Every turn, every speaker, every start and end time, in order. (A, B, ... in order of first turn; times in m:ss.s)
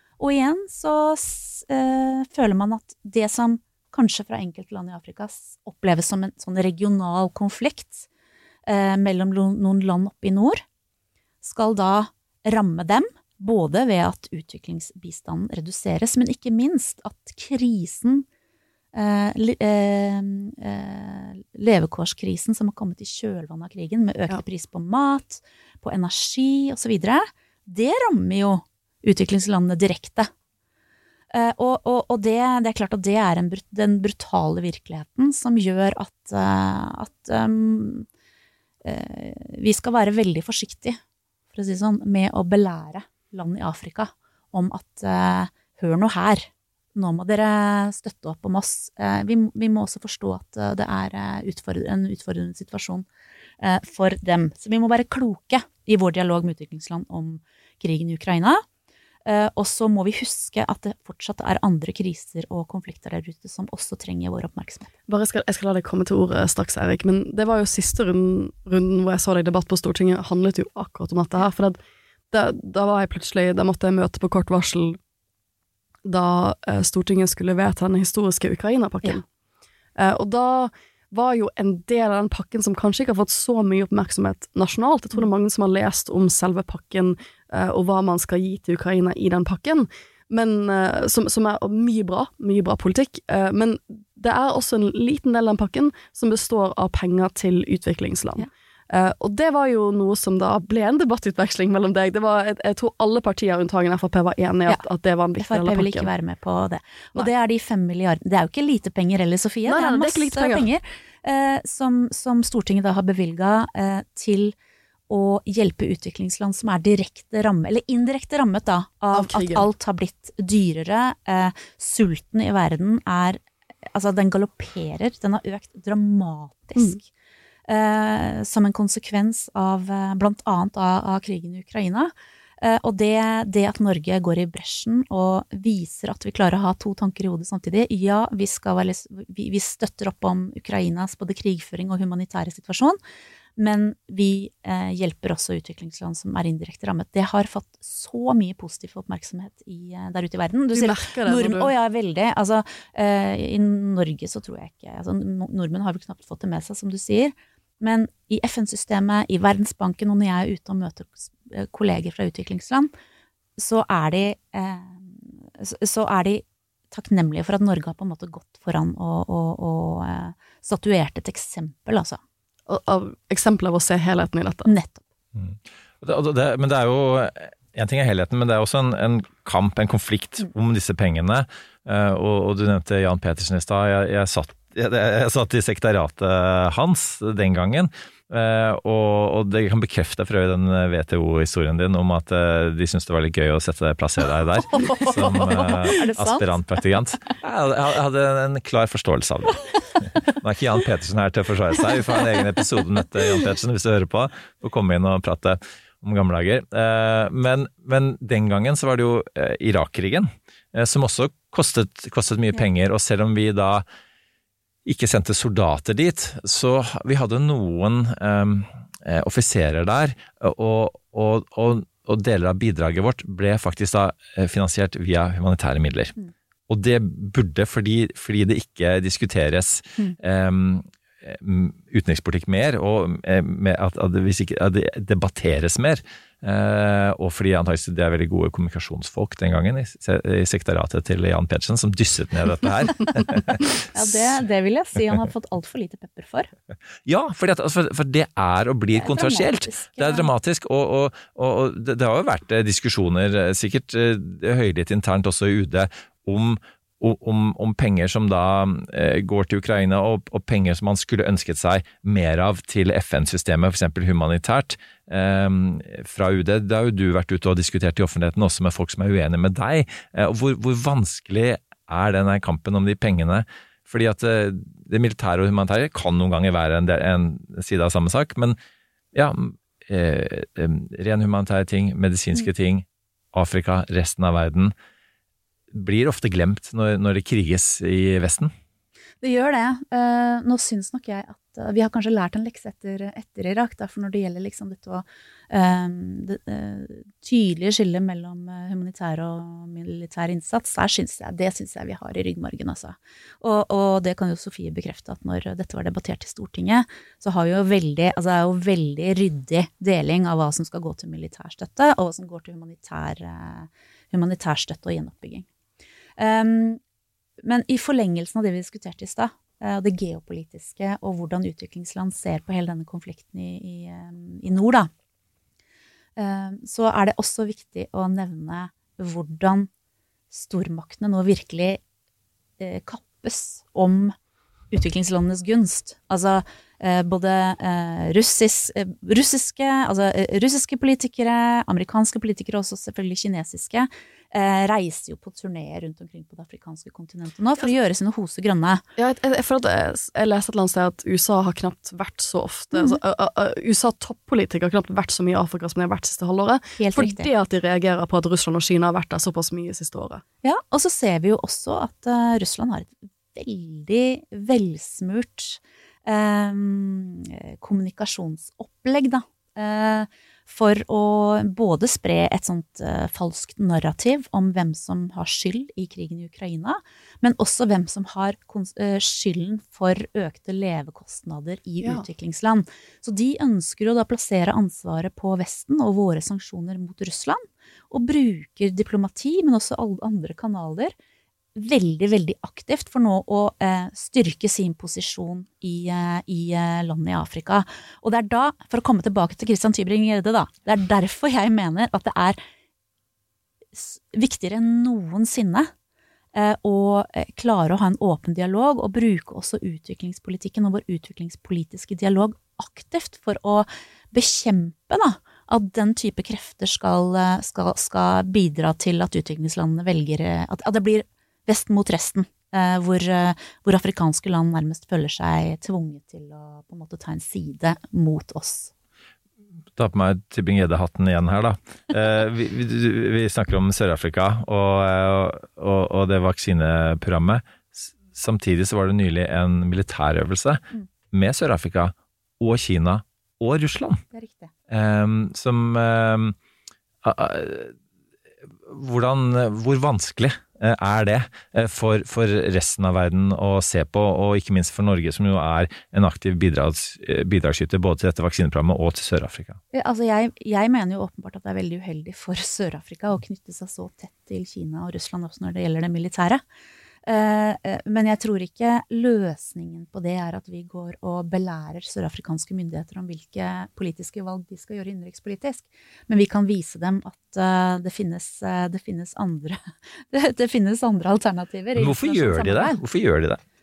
0:00.2-0:08.1 A
0:08.7-0:10.6 A
0:11.4-0:18.2 A
0:18.9-0:30.3 A
0:31.3-0:38.0 A
0:38.8-0:41.0 A
0:41.5-0:53.0 A
0:53.6-0:58.6 A
0:59.2-1:04.9 A
1:05.1-1:11.8 B
1:12.3-1:15.0 B
1:16.0-1:19.2 B
1:20.0-1:46.1 B
1:45.4-1:54.5 A
1:49.6-1:50.7 B
1:55.1-2:03.4 A
1:59.1-1:59.7 B
2:03.9-2:07.0 A
2:07.7-2:23.0 A
2:23.6-2:42.9 A
2:30.7-2:31.7 B
2:43.6-2:52.2 A
2:52.7-2:54.7 B
2:54.6-2:55.0 A
2:55.3-3:19.6 C
3:14.9-3:16.6 A
3:20.4-3:33.8 C
3:34.8-3:46.1 C
3:46.7-4:04.3 C
4:03.9-4:06.5 A
4:07.0-4:38.6 C
4:08.9-4:10.3 A
4:39.1-4:44.7 C
4:45.7-4:48.5 C
4:49.2-5:15.4 A
5:16.2-5:16.8 A
5:17.4-5:24.9 A
5:26.2-5:29.7 A
5:30.3-5:31.8 A
5:32.6-5:34.1 A
5:34.7-5:48.8 A
5:49.0-6:00.2 B
5:52.7-5:53.0 A
5:56.8-5:57.3 A
6:00.4-6:30.9 A
6:21.8-6:22.1 B
6:31.6-6:42.4 A
6:43.7-6:45.7 A
6:46.3-7:08.7 A
7:09.8-7:24.0 C
7:24.1-7:24.5 A
7:24.7-7:26.4 C
7:27.0-7:27.7 C
7:28.7-7:39.6 C
7:39.7-7:46.4 A
7:47.0-7:59.6 A
8:00.1-8:02.8 A
8:01.8-8:03.4 C